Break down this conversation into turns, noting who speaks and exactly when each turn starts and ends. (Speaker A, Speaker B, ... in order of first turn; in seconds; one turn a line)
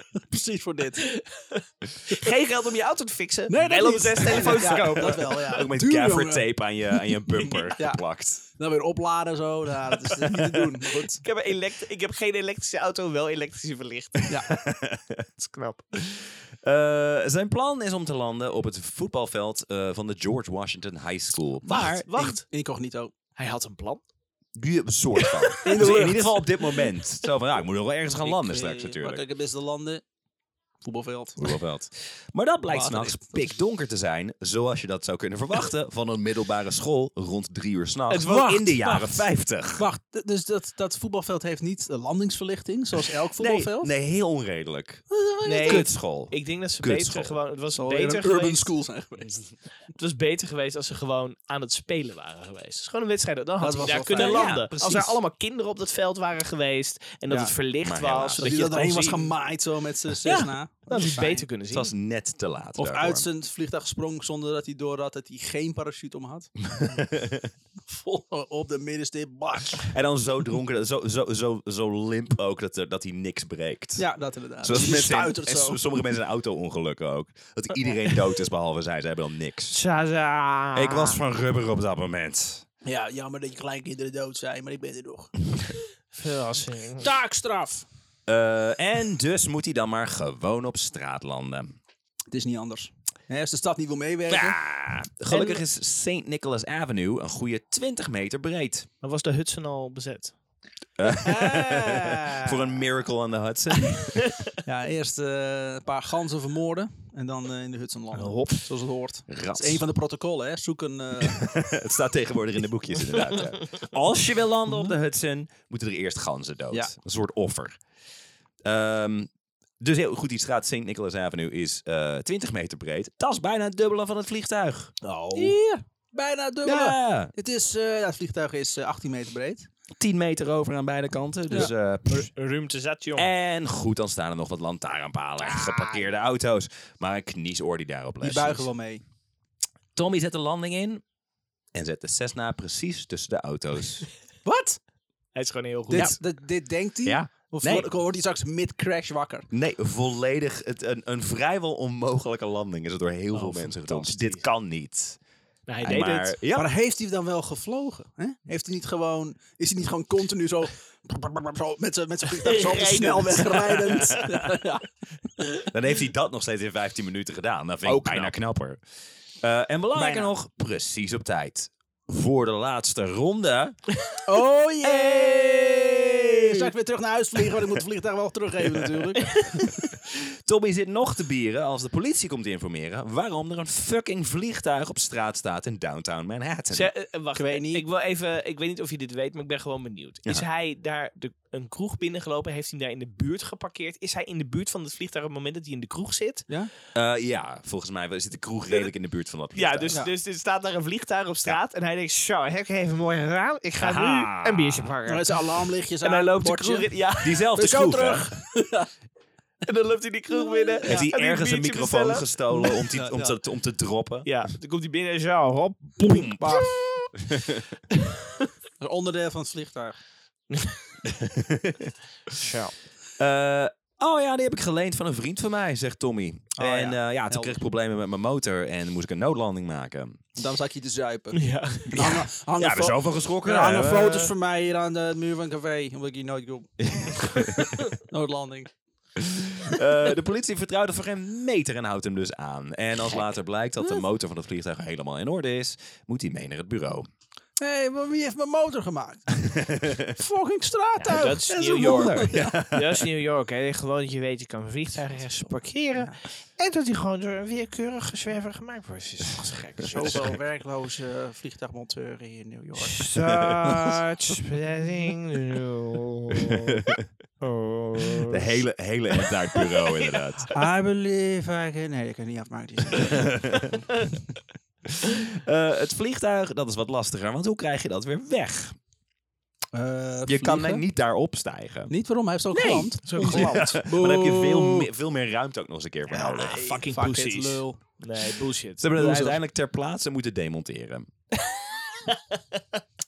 Speaker A: 0.1-1.1
Speaker B: 1.1-5.6
Speaker A: 3.5-6.5
Speaker C: 4.5-8.4
Speaker A: 7.5-11.2
Speaker B: 11.2-14.3
Speaker C: 14.4-15.3
Speaker B: 15.4-15.8
Speaker C: 15.9-22.1
Speaker B: 21.6-22.4
Speaker A: 22.1-23.1
Speaker B: 23.4-24.0
Speaker C: 24.5-29.2
Speaker B: 25.1-26.1
Speaker A: 25.6-26.4
Speaker A: 28.2-30.0
Speaker A: 30.8-31.4
Speaker C: 31.4-39.8
Speaker A: 32.7-33.5
Speaker B: 38.1-38.7
Speaker A: 38.6-39.2
Speaker A: 39.7-43.9
Speaker C: 43.4-45.0
Speaker A: 45.1-45.9
Speaker B: 45.4-48.7
Speaker C: 45.6-47.3
Speaker A: 47.7-49.5
Speaker B: 49.9-59.3
Speaker A: 53.6-54.5
Speaker C: 54.1-55.2
Speaker C: 57.8-58.5
Speaker A: 58.4-61.4
Speaker B: 60.2-61.9
Speaker C: 61.7-63.2
Speaker A: 62.8-66.5
Speaker C: 66.7-67.5
Speaker A: 67.8-69.9
Speaker C: 69.9-74.0
Speaker A: 74.0-75.8
Speaker C: 74.6-79.8
Speaker B: 79.7-81.2
Speaker C: 80.7-82.6
Speaker A: 82.8-85.3
Speaker B: 86.1-87.1
Speaker A: 87.0-87.8
Speaker C: 88.3-91.8
Speaker A: 92.3-94.6
Speaker C: 94.3-98.9
Speaker A: 95.3-95.6
Speaker B: 99.0-100.3
Speaker C: 101.0-104.3
Speaker A: 101.1-102.7
Speaker A: 104.6-111.5
Speaker B: 108.1-108.6
Speaker C: 109.3-109.8
Speaker C: 111.2-117.8
Speaker A: 114.7-114.9
Speaker C: 118.6-125.5
Speaker A: 125.3-129.7
Speaker C: 126.6-127.3
Speaker C: 130.0-132.3
Speaker B: 131.5-133.3
Speaker C: 133.2-138.7
Speaker A: 135.5-136.0
Speaker A: 138.2-139.0
Speaker C: 139.9-141.0
Speaker C: 141.7-144.1
Speaker A: 144.4-144.8
Speaker B: 145.3-146.1
Speaker A: 145.9-149.5
Speaker C: 147.0-147.9
Speaker C: 149.5-155.2
Speaker B: 153.3-154.5
Speaker B: 155.7-156.3
Speaker C: 155.8-156.7
Speaker A: 155.9-164.8
Speaker B: 162.4-164.1
Speaker C: 164.0-164.6
Speaker C: 165.7-168.8
Speaker B: 167.9-168.3
Speaker C: 169.4-173.8
Speaker A: 169.9-170.3
Speaker A: 174.2-179.7
Speaker B: 174.9-176.0
Speaker B: 179.2-179.7
Speaker C: 180.1-186.9
Speaker B: 186.7-196.5
Speaker A: 187.3-187.8
Speaker C: 196.9-200.0
Speaker B: 199.5-205.4
Speaker C: 203.8-204.9
Speaker A: 205.1-206.9
Speaker B: 206.0-207.4
Speaker C: 207.2-208.3
Speaker A: 207.5-208.9
Speaker B: 209.6-212.3
Speaker A: 210.3-211.1
Speaker C: 210.9-214.3
Speaker A: 212.5-213.4
Speaker B: 214.2-216.5
Speaker C: 216.0-216.6
Speaker A: 216.3-216.9
Speaker C: 217.2-217.8
Speaker A: 218.8-220.0
Speaker B: 220.5-220.9
Speaker C: 221.2-221.9
Speaker B: 222.3-222.7
Speaker C: 223.2-230.2
Speaker A: 226.6-227.6
Speaker A: 230.4-238.7
Speaker B: 231.3-232.0
Speaker C: 231.9-234.3
Speaker C: 236.9-237.8
Speaker C: 239.2-247.1
Speaker A: 247.6-252.6
Speaker C: 249.4-250.1
Speaker B: 251.0-260.4
Speaker C: 251.5-253.1
Speaker C: 259.8-260.2
Speaker A: 259.8-263.1
Speaker B: 262.8-266.8
Speaker C: 263.2-264.0
Speaker C: 266.4-267.0
Speaker B: 267.4-268.6
Speaker C: 268.2-270.5
Speaker B: 269.2-270.5
Speaker A: 270.5-273.8
Speaker C: 272.9-273.8
Speaker C: 274.9-278.8
Speaker A: 279.7-280.8
Speaker C: 280.3-281.9
Speaker A: 281.9-284.9
Speaker B: 282.6-283.7
Speaker C: 282.6-286.8
Speaker B: 286.1-288.9
Speaker A: 286.6-287.8
Speaker C: 288.8-291.1
Speaker A: 288.9-289.4
Speaker B: 291.4-292.8